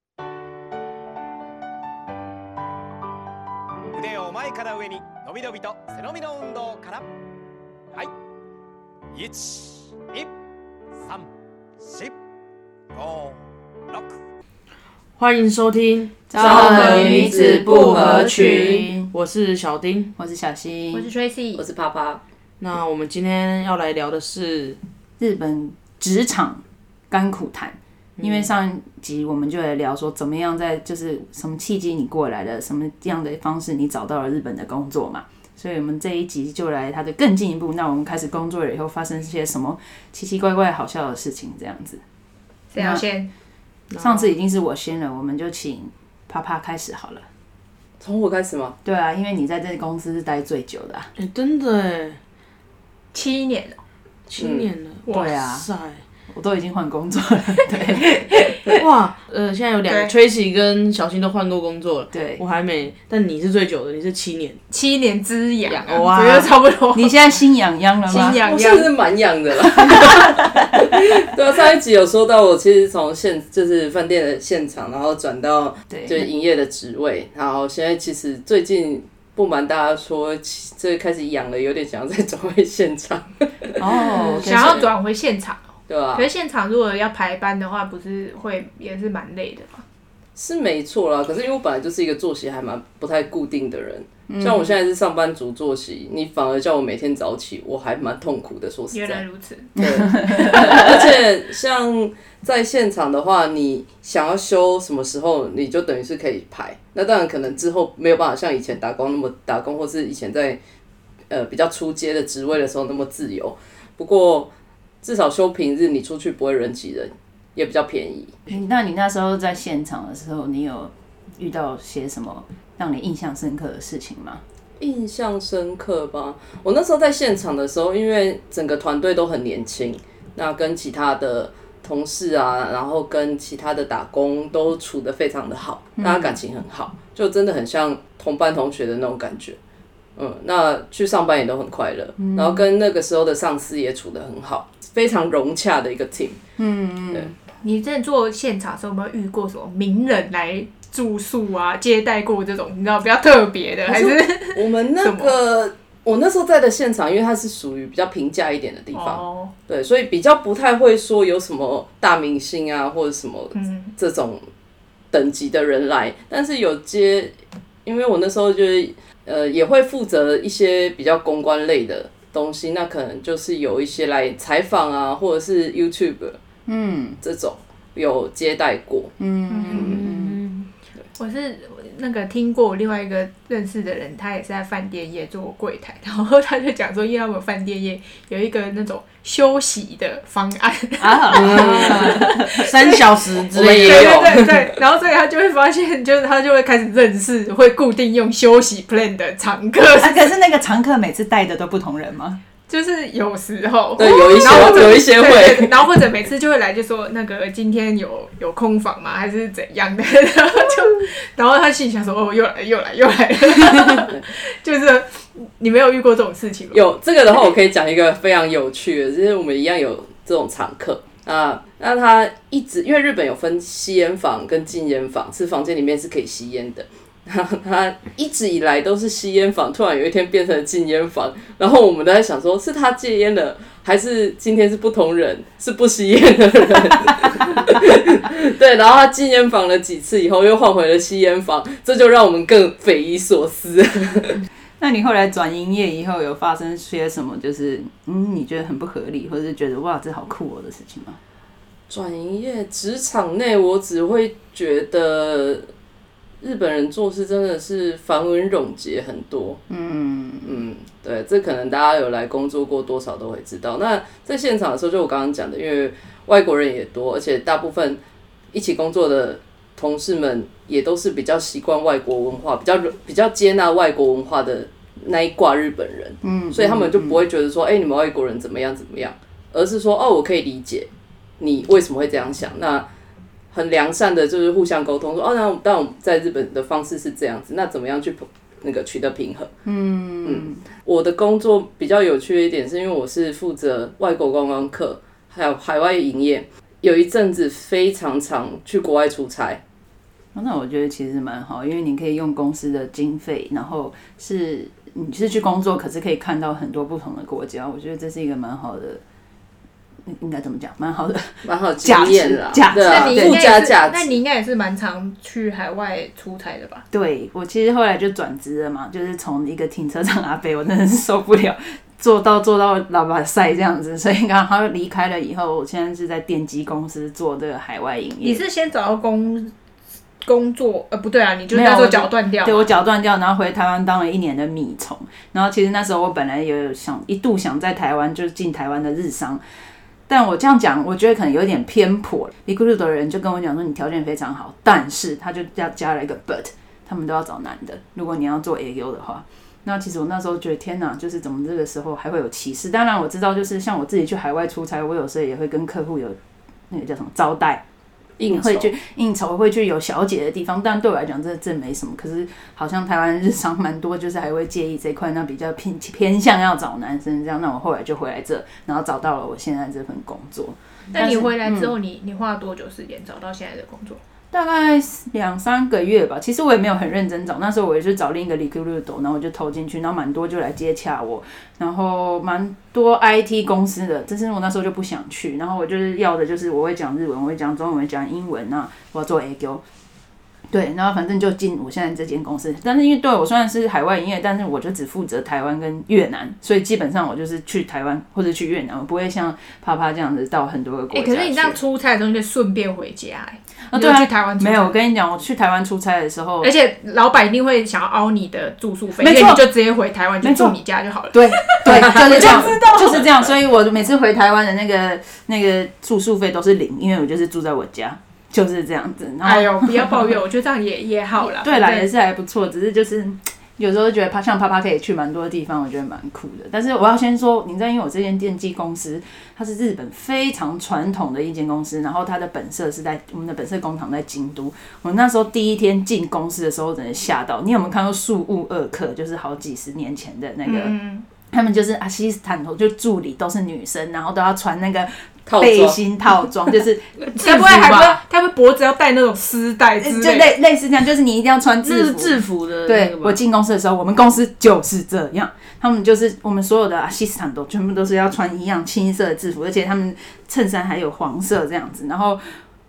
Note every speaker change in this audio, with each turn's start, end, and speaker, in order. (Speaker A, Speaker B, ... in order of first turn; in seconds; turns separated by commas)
Speaker A: 3.9-7.1, Speaker A: 9.1-10.3, Speaker A: 11.8-12.1, Speaker A: 12.9-13.4, Speaker A: 13.9-14.2, Speaker B: 15.2-20.1, Speaker C: 16.3-19.1, Speaker D: 16.4-18.8, Speaker E: 16.4-17.3, Speaker C: 20.2-21.1, Speaker E: 20.9-21.6, Speaker D: 21.6-22.2, Speaker B: 22.6-24.8, Speaker C: 25.2-42.0, Speaker E: 42.7-43.3, Speaker C: 42.8-43.0, Speaker B: 43.9-44.3, Speaker C: 44.0-47.3, Speaker D: 48.0-48.8, Speaker C: 48.9-51.1, Speaker B: 51.2-52.2, Speaker E: 53.1-53.8, Speaker B: 54.3-56.0, Speaker D: 54.4-54.7, Speaker E: 55.1-55.4, Speaker C: 55.1-55.7, Speaker C: 56.3-58.8, Speaker B: 58.8-64.6, Speaker E: 59.9-60.1, Speaker C: 62.1-62.4, Speaker E: 64.7-67.2, Speaker B: 65.7-66.5, Speaker C: 66.9-68.4, Speaker E: 68.1-68.9, Speaker D: 68.2-83.8, Speaker C: 69.9-70.7, Speaker C: 75.9-76.3, Speaker C: 83.8-84.9, Speaker E: 84.4-85.6, Speaker D: 85.9-86.3, Speaker E: 86.1-89.8, Speaker D: 90.4-99.2, Speaker C: 94.3-94.7, Speaker E: 98.9-100.9, Speaker D: 99.8-110.6, Speaker C: 99.8-100.9, Speaker D: 111.3-114.5, Speaker D: 115.0-118.3, Speaker C: 118.5-124.4, Speaker D: 124.8-139.6, Speaker C: 136.0-136.4, Speaker D: 140.2-146.4, Speaker C: 142.2-142.6, Speaker C: 146.6-147.3, Speaker E: 147.6-155.3, Speaker D: 153.9-164.4, Speaker E: 158.9-159.5, Speaker E: 163.6-163.9, Speaker D: 165.1-167.3, Speaker D: 167.8-176.4, Speaker C: 176.7-177.2, Speaker D: 177.2-179.1, Speaker C: 179.2-180.4, Speaker E: 179.5-193.0, Speaker C: 191.0-192.8, Speaker D: 191.3-192.1, Speaker B: 191.3-194.3, Speaker D: 193.5-194.7, Speaker E: 193.8-200.3, Speaker C: 200.0-202.4, Speaker E: 202.7-216.8, Speaker D: 204.0-205.7, Speaker C: 204.4-204.9, Speaker D: 216.7-244.4, Speaker C: 244.8-251.2, Speaker D: 251.9-255.7, Speaker D: 256.4-259.6, Speaker C: 259.7-260.6, Speaker D: 260.4-268.0, Speaker D: 268.5-280.9, Speaker C: 276.2-277.2, Speaker D: 281.4-282.9, Speaker D: 283.5-289.5, Speaker C: 289.6-290.6, Speaker D: 290.2-299.6, Speaker C: 300.3-309.0, Speaker C: 310.1-313.4, Speaker D: 311.4-314.1, Speaker E: 312.9-316.9, Speaker C: 316.9-328.4, Speaker E: 328.2-329.5, Speaker E: 330.2-332.6, Speaker C: 331.5-339.4, Speaker C: 340.1-356.2, Speaker C: 356.7-357.6, Speaker D: 358.2-358.7, Speaker C: 358.3-371.7, Speaker E: 370.9-374.0, Speaker C: 374.3-389.6, Speaker C: 390.5-401.6, Speaker E: 400.9-404.8, Speaker C: 403.7-406.5, Speaker E: 406.4-413.1, Speaker C: 409.0-409.5, Speaker C: 410.2-410.6, Speaker C: 411.1-420.1, Speaker E: 419.2-421.9, Speaker C: 421.2-440.7, Speaker E: 440.4-441.1, Speaker C: 441.3-446.9, Speaker D: 445.3-445.8, Speaker B: 447.1-448.0, Speaker E: 447.1-450.3, Speaker C: 449.8-462.4, Speaker B: 451.6-453.2